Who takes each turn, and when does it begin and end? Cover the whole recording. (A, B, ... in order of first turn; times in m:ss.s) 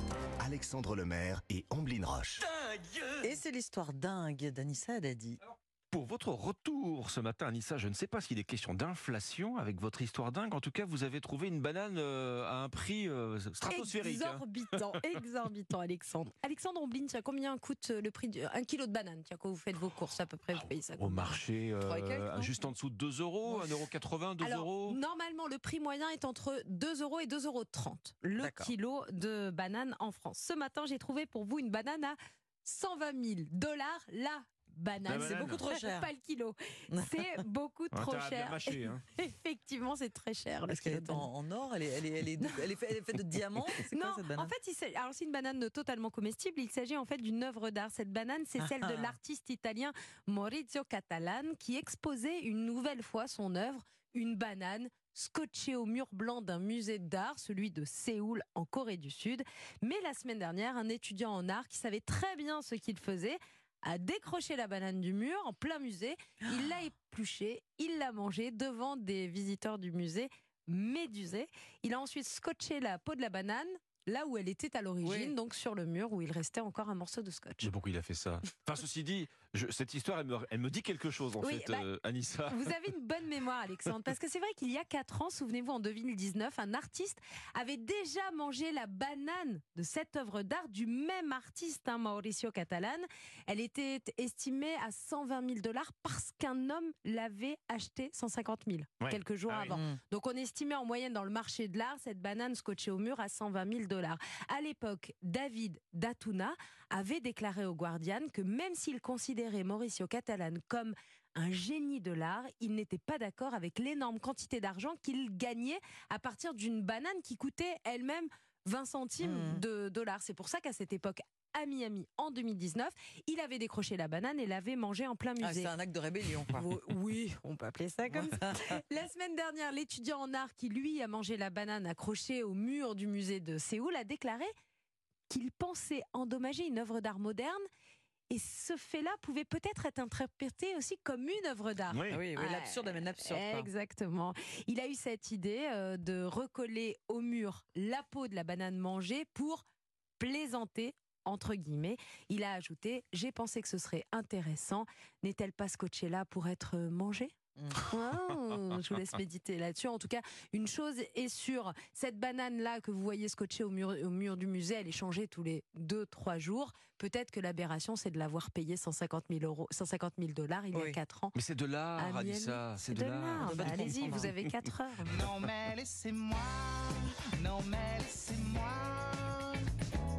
0:00.4-0:02.4 A
0:02.6-0:03.2 B
0:03.2-0:05.4 C
0:05.9-0:14.7 B
0:13.6-0:21.4 D
0:20.5-0:25.0 B
0:21.8-0:22.7 C
0:23.5-0:23.8 D
0:24.4-0:41.3 D
0:28.4-0:28.7 C
0:35.1-0:35.6 B
0:35.1-0:36.1 C
0:36.9-0:37.4 C
0:37.9-0:39.0 B
0:40.7-0:44.5 C
0:43.9-1:17.7 D
0:48.6-0:49.1 C
1:15.0-1:15.3 C
1:17.6-1:22.8 B
1:21.4-1:21.9 D
1:22.5-2:05.7 D
1:39.0-1:39.8 B
1:39.7-1:40.0 C
1:59.2-1:59.6 C
2:05.4-2:06.6 C
2:06.4-2:14.5 D
2:08.2-2:08.8 C
2:15.3-2:17.6 D
2:18.3-2:29.6 D
2:21.9-2:22.2 B
2:22.1-2:23.7 C
2:30.2-2:51.3 D
2:50.7-2:51.0 C
2:51.3-2:54.3 B
2:52.0-2:55.2 D
2:53.4-2:54.3 C
2:55.0-2:59.6 E